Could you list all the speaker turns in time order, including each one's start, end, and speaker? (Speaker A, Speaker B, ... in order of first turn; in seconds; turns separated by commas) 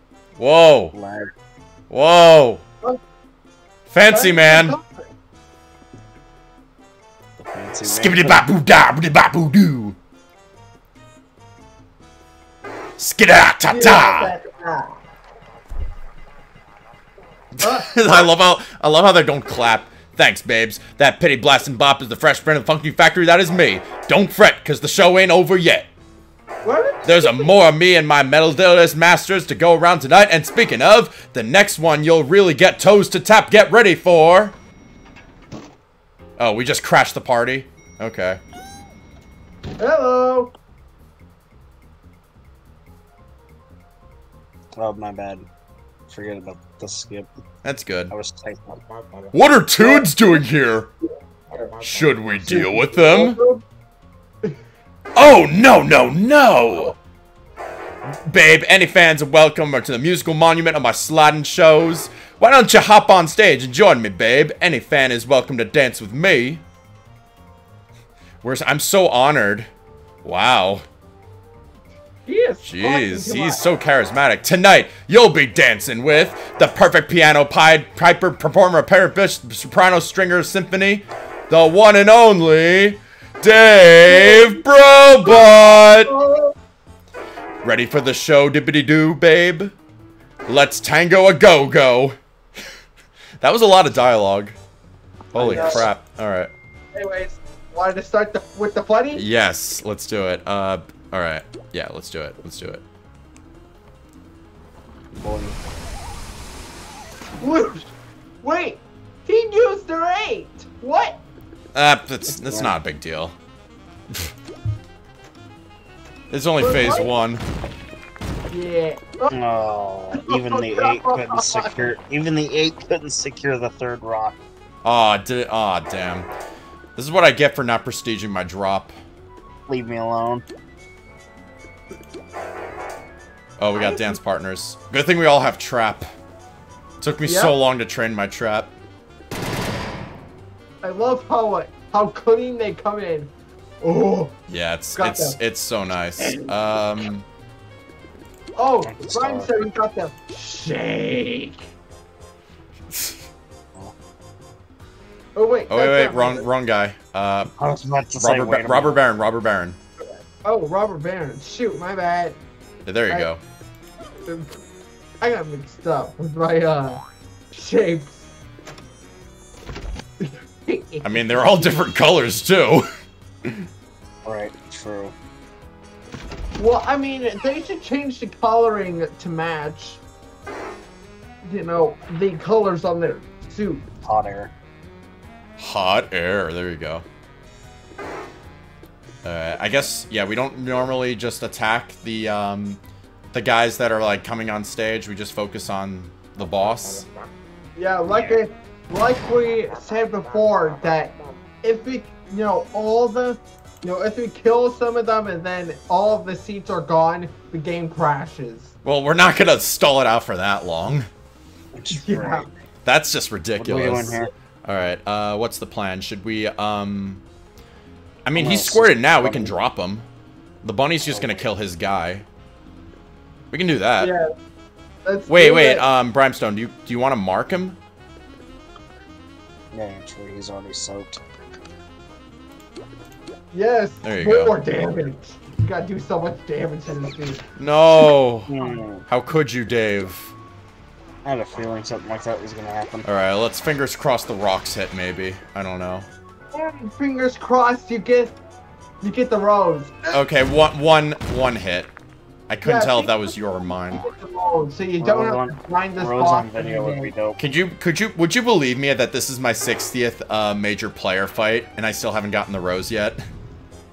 Speaker A: 0.4-0.9, Speaker B: 0.9-1.3, Speaker A: 1.9-2.6, Speaker A: 3.9-4.8, Speaker C: 4.1-5.0, Speaker B: 7.4-8.4, Speaker A: 7.8-10.0, Speaker A: 13.0-14.3, Speaker C: 13.7-14.9, Speaker A: 17.6-25.9, Speaker C: 17.6-18.3, Speaker C: 26.6-27.6, Speaker A: 27.1-34.5, Speaker A: 36.4-38.4, Speaker C: 39.8-40.5, Speaker B: 44.8-45.5, Speaker B: 46.1-47.3, Speaker A: 47.6-48.1, Speaker B: 48.1-48.8, Speaker A: 49.3-50.9, Speaker C: 49.8-50.4, Speaker C: 51.5-51.8, Speaker A: 51.8-53.4, Speaker C: 52.5-53.6, Speaker A: 55.1-57.0, Speaker A: 58.2-66.6, Speaker A: 68.4-69.7, Speaker A: 70.2-70.9, Speaker C: 72.3-73.6, Speaker A: 72.6-86.1, Speaker C: 84.1-84.7, Speaker C: 85.2-86.5, Speaker A: 87.6-89.7, Speaker A: 90.5-92.2, Speaker A: 93.4-94.6, Speaker A: 95.3-96.5, Speaker B: 95.3-95.9, Speaker C: 95.4-95.9, Speaker C: 96.9-99.2, Speaker A: 99.1-102.8, Speaker B: 105.2-105.6, Speaker C: 107.4-107.9, Speaker C: 108.4-111.2, Speaker A: 111.8-113.3, Speaker B: 112.3-112.7, Speaker A: 116.3-117.4, Speaker C: 116.6-117.1, Speaker C: 118.5-119.3, Speaker B: 119.3-124.4, Speaker C: 120.1-121.9, Speaker A: 124.8-126.3, Speaker A: 127.0-129.0, Speaker B: 129.7-130.5, Speaker A: 133.6-136.1, Speaker C: 133.8-134.2, Speaker A: 137.0-138.7, Speaker C: 137.2-137.5, Speaker C: 140.8-144.4, Speaker A: 144.5-147.3, Speaker C: 145.0-145.4, Speaker C: 148.6-151.6, Speaker B: 148.8-149.5, Speaker A: 152.9-153.3, Speaker C: 155.3-156.5, Speaker A: 155.7-157.5, Speaker B: 157.6-159.0, Speaker A: 158.2-159.8, Speaker C: 160.0-162.4, Speaker A: 162.9-163.4, Speaker C: 164.3-164.6, Speaker C: 165.2-167.0, Speaker C: 167.5-168.3, Speaker C: 170.2-171.8, Speaker A: 171.0-172.9, Speaker B: 174.2-175.1, Speaker C: 176.6-180.0, Speaker C: 181.4-183.8, Speaker B: 184.0-184.5, Speaker A: 185.6-187.1, Speaker A: 189.2-192.8, Speaker A: 193.3-197.1, Speaker C: 197.8-208.7, Speaker B: 198.1-198.4, Speaker A: 208.8-211.1, Speaker B: 211.8-212.5, Speaker C: 211.9-212.5, Speaker A: 212.8-217.2, Speaker B: 213.6-214.3, Speaker A: 218.2-220.1, Speaker B: 218.3-219.6, Speaker A: 220.6-222.2, Speaker B: 221.1-221.5, Speaker A: 223.5-224.1, Speaker C: 224.0-224.3, Speaker C: 225.1-225.8, Speaker A: 225.3-227.8, Speaker B: 229.7-231.2, Speaker C: 233.5-237.4, Speaker A: 234.0-234.5, Speaker A: 237.6-238.5, Speaker B: 238.5-239.1, Speaker A: 239.1-240.3, Speaker B: 241.2-243.1, Speaker A: 243.1-246.1, Speaker C: 246.5-248.4, Speaker C: 249.0-250.2, Speaker A: 250.1-251.9, Speaker A: 252.5-254.0, Speaker C: 252.6-257.1, Speaker B: 255.0-257.4, Speaker A: 257.4-263.2